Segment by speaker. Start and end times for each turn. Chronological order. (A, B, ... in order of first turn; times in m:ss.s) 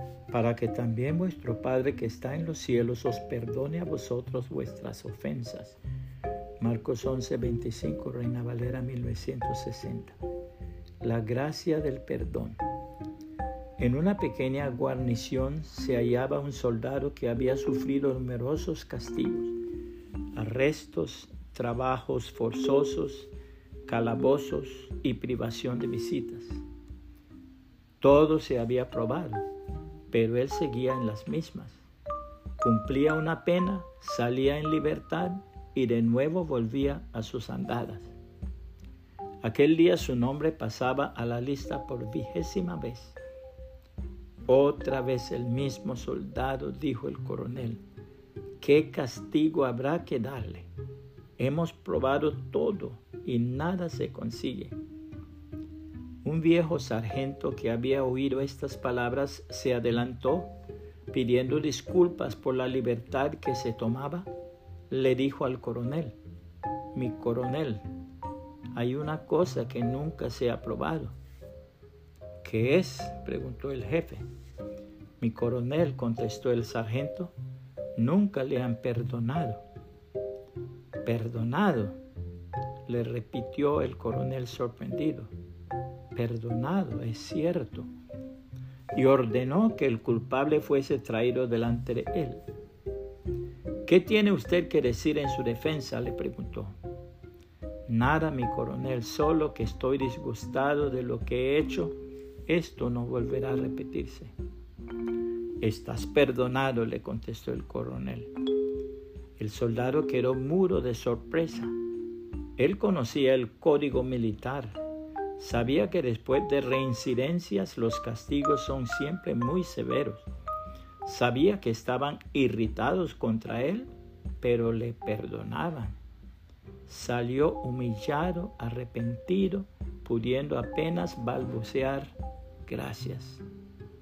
0:00.3-0:05.8 A
0:06.6-0:10.2 A
0:11.0-0:12.6 A
0:13.8-0:19.6 A
0:20.4-0:23.3 A
0:23.9-0:26.6 A
0:28.0-0:29.4 A
0:30.1-0:31.8 A
0:32.6-0:38.1 A
0:39.4-0:43.2 A
0:44.5-0:47.8 A
0:48.6-0:50.7 A
0:51.4-0:54.8 A
0:56.2-1:00.5 A
1:01.1-1:04.3 A
1:04.9-1:06.2 A
1:06.9-1:07.8 A
1:08.7-1:11.2 A
1:12.4-1:14.2 A
1:15.2-1:17.3 A
1:18.0-1:19.6 A
1:21.0-1:22.0 A
1:22.9-1:25.3 A
1:26.1-1:27.9 A
1:28.9-1:32.4 A
1:33.9-1:36.8 A
1:37.9-1:44.3 A
1:45.6-1:48.3 A
1:49.4-1:51.7 A
1:52.6-1:54.8 A
1:55.4-2:00.3 A
2:01.0-2:03.9 A
2:04.4-2:06.0 A
2:06.9-2:13.4 A